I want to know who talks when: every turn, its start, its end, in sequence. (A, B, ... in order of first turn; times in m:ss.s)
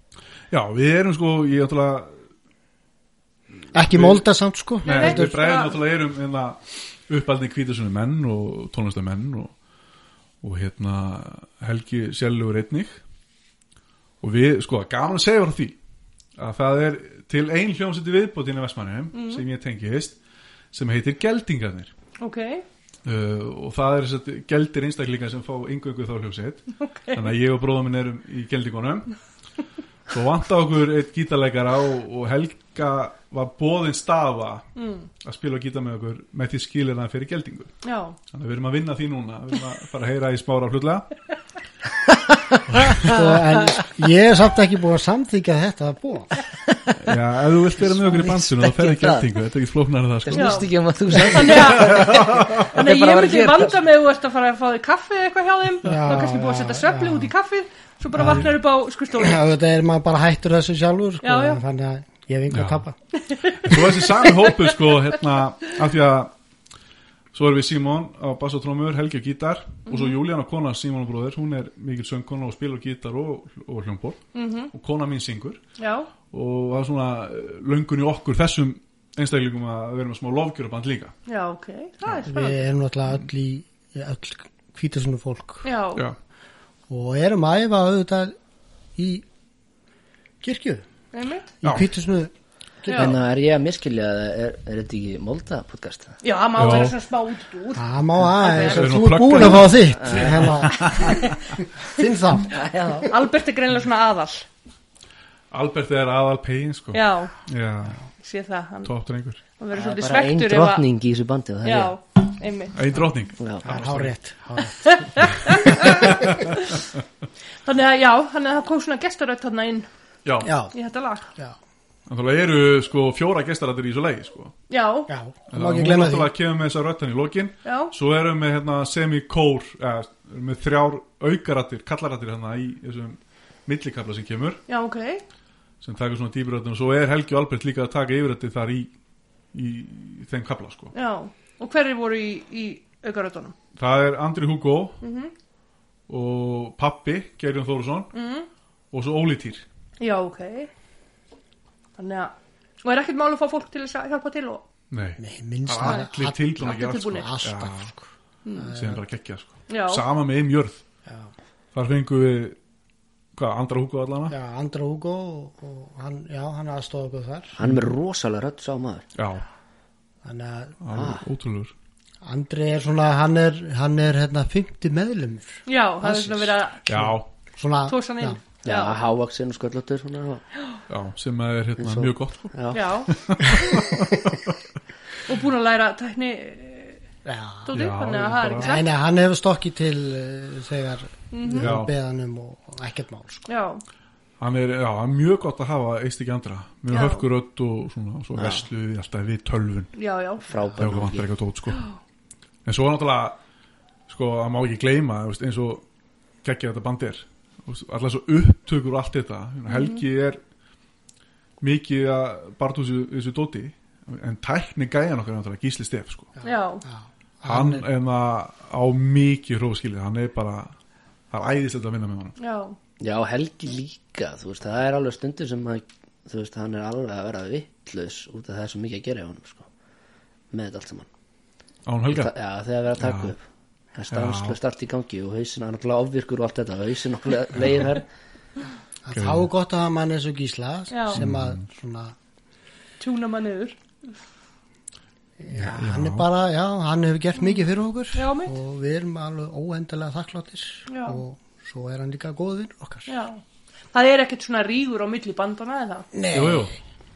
0:00.5-0:02.2 A
0:03.6-0:04.2 A
0:03.7-0:05.4 B
0:04.8-0:09.5 A
0:04.8-0:05.8 C
0:10.4-0:13.0 A
0:14.2-0:15.8 A
0:16.4-0:20.2 A
0:19.1-0:19.4 C
0:20.7-0:21.9 A
0:22.2-0:22.6 C
0:23.0-0:29.2 A
0:26.8-0:27.3 C
0:30.1-0:34.7 A
0:34.8-0:35.1 C
0:35.2-0:37.8 A
0:37.8-0:38.2 C
0:38.3-0:41.1 A
0:42.1-0:43.8 D
0:42.7-0:43.2 A
0:42.9-0:46.4 B
0:46.5-0:47.1 D
0:47.0-0:52.6 A
0:47.8-0:49.3 D
0:50.2-0:53.7 D
0:50.3-0:59.4 C
0:55.8-0:57.3 B
0:58.2-0:58.5 B
0:58.2-0:58.5 A
0:59.2-1:03.0 B
1:01.2-1:01.6 C
1:02.5-1:02.8 A
1:03.2-1:04.9 C
1:03.5-1:06.3 A
1:07.3-1:15.6 A
1:09.9-1:10.2 C
1:14.3-1:14.7 C
1:15.8-1:16.1 C
1:16.3-1:21.1 A
1:21.3-1:22.7 C
1:22.2-1:25.6 B
1:25.6-1:26.0 C
1:26.9-1:28.4 B
1:29.0-1:29.2 B
1:30.4-1:30.8 B
1:31.1-1:31.5 C
1:31.6-1:32.3 B
1:32.8-1:33.2 B
1:32.9-1:33.1 C
1:32.9-1:36.2 D
1:36.2-1:38.9 C
1:36.6-1:36.9 A
1:37.7-1:42.7 B
1:38.6-1:41.2 A
1:39.9-1:41.1 D
1:42.5-1:43.1 D
1:43.1-1:44.5 C
1:45.5-1:48.0 A
1:46.9-1:47.4 C
1:48.2-1:48.9 C
1:48.8-1:49.4 A
1:49.6-1:50.8 C
1:49.7-1:51.9 D
1:51.6-1:52.7 C
1:52.7-1:54.1 A
1:53.4-1:53.6 D
1:53.6-1:56.3 B
1:54.8-1:56.8 C
1:55.2-1:56.5 A
1:57.6-1:59.9 C
2:00.2-2:00.5 A
2:00.4-2:00.7 B
2:00.7-2:01.3 C
2:02.1-2:04.6 A
2:04.7-2:05.1 C
2:05.1-2:06.3 B
2:05.5-2:14.6 A
2:07.6-2:07.9 C
2:14.7-2:15.2 C
2:15.8-2:18.9 A
2:19.5-2:20.9 A
2:20.9-2:23.6 C
2:23.8-2:25.0 A
2:25.0-2:25.3 C
2:26.1-2:28.1 A
2:28.1-2:28.5 C
2:28.9-2:29.6 A
2:30.0-2:30.7 C
2:32.0-2:34.6 C
2:34.9-2:37.9 A
2:35.2-2:39.0 B
2:35.8-2:36.1 C
2:36.6-2:37.3 C
2:38.4-2:38.7 C
2:38.7-2:40.8 A
2:39.7-2:40.0 C
2:41.1-2:41.3 B
2:41.7-2:42.6 A
2:43.4-2:44.4 A
2:44.3-2:47.6 B
2:47.6-2:49.0 D
2:47.6-2:47.9 A
2:49.2-2:49.4 A
2:50.2-2:50.8 B
2:50.8-2:51.7 A
2:50.9-2:51.2 D
2:52.2-2:58.4 B
2:55.6-2:56.9 C
2:56.9-2:57.3 A
2:57.9-2:59.0 C
2:58.6-3:00.4 D
3:00.9-3:02.5 A
3:01.8-3:03.0 D
3:02.7-3:03.1 C
3:03.1-3:04.5 A
3:05.2-3:07.0 C
3:07.2-3:07.7 B
3:07.6-3:08.8 C
3:07.7-3:08.7 A
3:08.6-3:13.4 B
3:11.3-3:11.7 C
3:11.6-3:11.9 A
3:13.5-3:13.8 C
3:14.4-3:19.9 A
3:16.9-3:17.2 C
3:18.3-3:18.6 D
3:19.9-3:20.6 C
3:20.4-3:21.3 D
3:20.8-3:21.9 A
3:22.6-3:23.4 A
3:24.1-3:25.8 A
3:26.4-3:30.4 A
3:29.7-3:30.0 C
3:31.6-3:36.3 A
3:36.4-3:37.8 B
3:36.4-3:36.8 C
3:37.4-3:40.7 A
3:41.3-3:42.4 A
3:42.4-3:42.8 C
3:43.0-3:49.7 D
3:50.5-3:51.1 D
3:51.9-3:52.3 A
3:52.1-3:53.4 D
3:53.0-3:53.3 A
3:53.9-3:58.1 D
3:54.1-3:54.6 A
3:59.0-4:02.2 B
3:59.1-3:59.5 A
4:00.9-4:01.2 C
4:01.1-4:01.6 A
4:03.0-4:03.8 C
4:05.4-4:13.1 B
4:05.5-4:06.3 A
4:08.1-4:08.6 C
4:10.9-4:11.2 C
4:13.1-4:13.4 C
4:13.9-4:16.1 C
4:16.1-4:16.7 B
4:16.3-4:16.7 A